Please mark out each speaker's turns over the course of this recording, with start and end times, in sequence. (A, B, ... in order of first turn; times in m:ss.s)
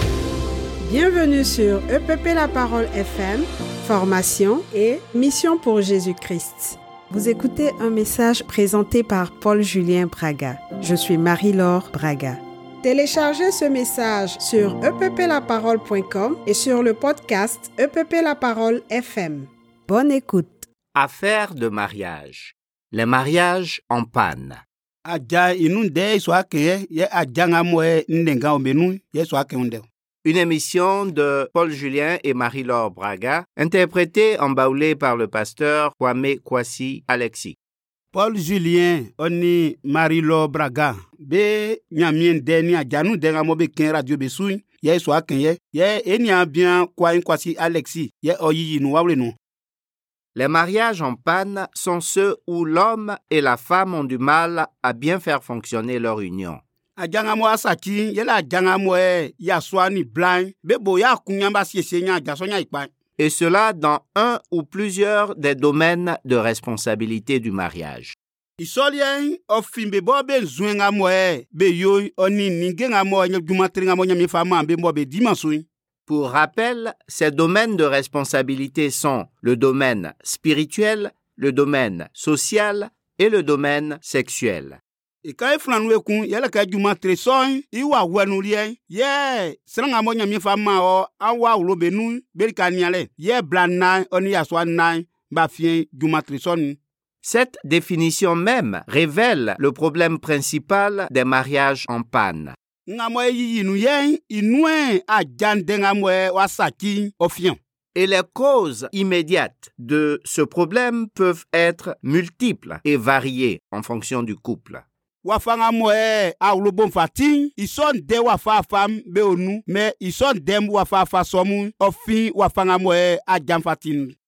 0:00.8-0:20.6 A
0:20.9-0:24.6 B
0:25.0-0:29.8 C
0:30.2-0:37.6 B
0:38.1-0:49.3 C
0:50.3-0:56.6 B
0:57.0-1:02.9 C
1:03.2-1:08.2 B
1:08.6-1:15.6 C
1:16.1-1:24.8 B
1:25.2-1:36.8 C
1:37.2-1:42.6 B
1:42.9-1:47.6 C
1:47.9-1:54.8 B
1:55.2-2:04.1 C